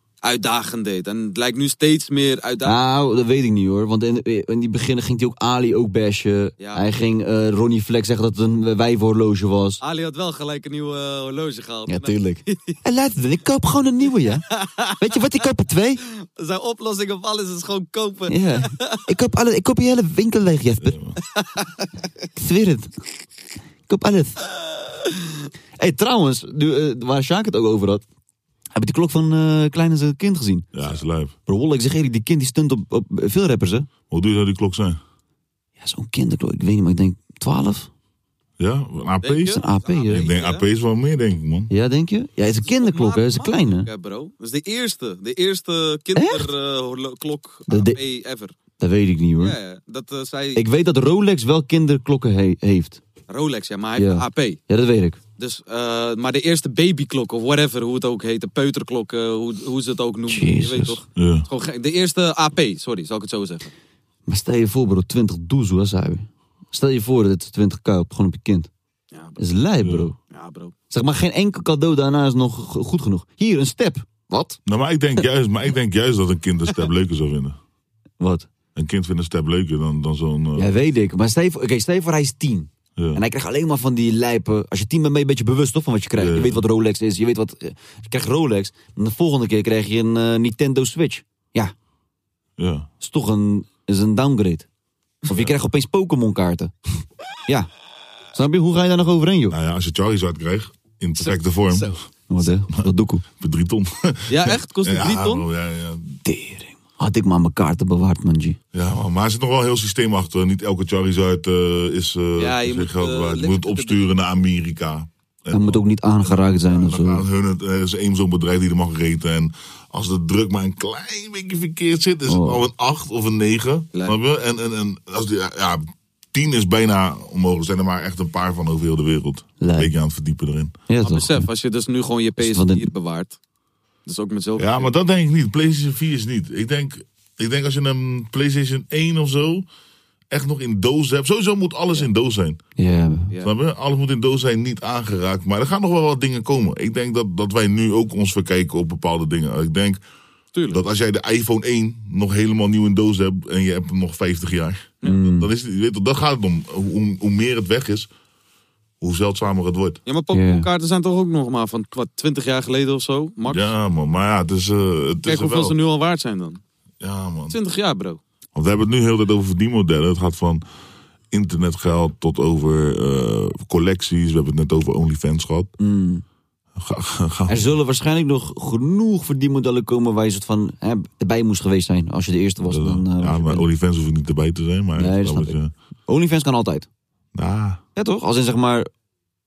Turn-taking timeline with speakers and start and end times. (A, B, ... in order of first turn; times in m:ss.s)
0:00.2-0:02.8 A
0:02.6-0:09.8 B
0:06.6-0:06.9 A
0:09.8-0:12.7 A
0:11.9-0:14.4 B
0:14.3-0:15.4 A
0:15.0-0:16.0 B
0:16.4-0:18.9 A
0:18.3-0:21.0 B
0:20.8-0:21.2 C
0:21.4-0:21.7 A
0:22.4-0:22.9 B
0:23.9-0:24.4 B
0:25.8-0:28.0 B
0:28.8-0:30.7 B
0:30.7-0:31.4 C
0:31.5-0:33.9 B
0:34.0-0:35.0 C
0:35.8-0:37.9 B
0:38.6-0:41.7 C
0:39.2-0:40.6 A
0:39.5-0:40.3 B
0:41.7-0:43.9 B
0:42.6-0:48.6 A
0:46.2-0:46.5 B
0:47.7-0:48.0 B
0:48.8-0:49.6 B
0:49.4-0:50.7 A
0:50.6-0:53.0 B
0:53.3-0:54.6 A
0:54.0-0:55.2 B
0:55.4-1:03.7 A
1:00.3-1:01.0 B
1:01.2-1:01.5 C
1:04.3-1:08.7 B
1:09.1-1:09.4 A
1:09.4-1:10.2 B
1:09.8-1:10.1 C
1:10.3-1:10.7 A
1:10.9-1:14.6 B
1:14.7-1:17.6 C
1:18.2-1:18.5 B
1:18.8-1:20.8 C
1:20.6-1:31.7 B
1:23.0-1:23.2 C
1:26.2-1:26.6 C
1:32.6-1:32.9 C
1:33.0-1:34.7 B
1:35.3-1:36.7 B
1:38.3-1:39.6 B
1:39.5-1:42.0 C
1:41.2-1:42.0 A
1:42.3-1:43.2 B
1:42.7-1:46.2 C
1:44.3-1:45.4 A
1:46.2-1:48.6 B
1:48.7-2:10.8 C
1:52.4-1:54.0 A
1:55.5-1:57.2 B
2:02.3-2:02.6 B
2:09.6-2:10.0 B
2:10.9-2:11.5 B
2:11.0-2:13.4 A
2:12.4-2:12.9 B
2:14.1-2:14.9 A
2:14.6-2:19.7 C
2:20.3-2:22.6 C
2:22.8-2:23.3 B
2:23.4-2:30.0 C
2:30.6-2:30.8 A
2:30.7-2:38.1 C
2:35.0-2:35.5 B
2:39.0-2:40.0 C
2:40.1-2:43.7 A
2:40.3-2:40.7 B
2:43.5-2:45.8 C
2:45.3-2:46.6 A
2:47.0-2:47.6 C
2:47.5-2:48.2 A
2:48.6-2:50.6 C
2:51.3-2:55.7 C
2:55.8-2:56.2 B
2:56.8-2:57.7 C
2:57.5-3:03.7 B
3:02.7-3:05.7 C
3:05.0-3:06.9 B
3:07.4-3:07.8 C
3:08.0-3:08.9 B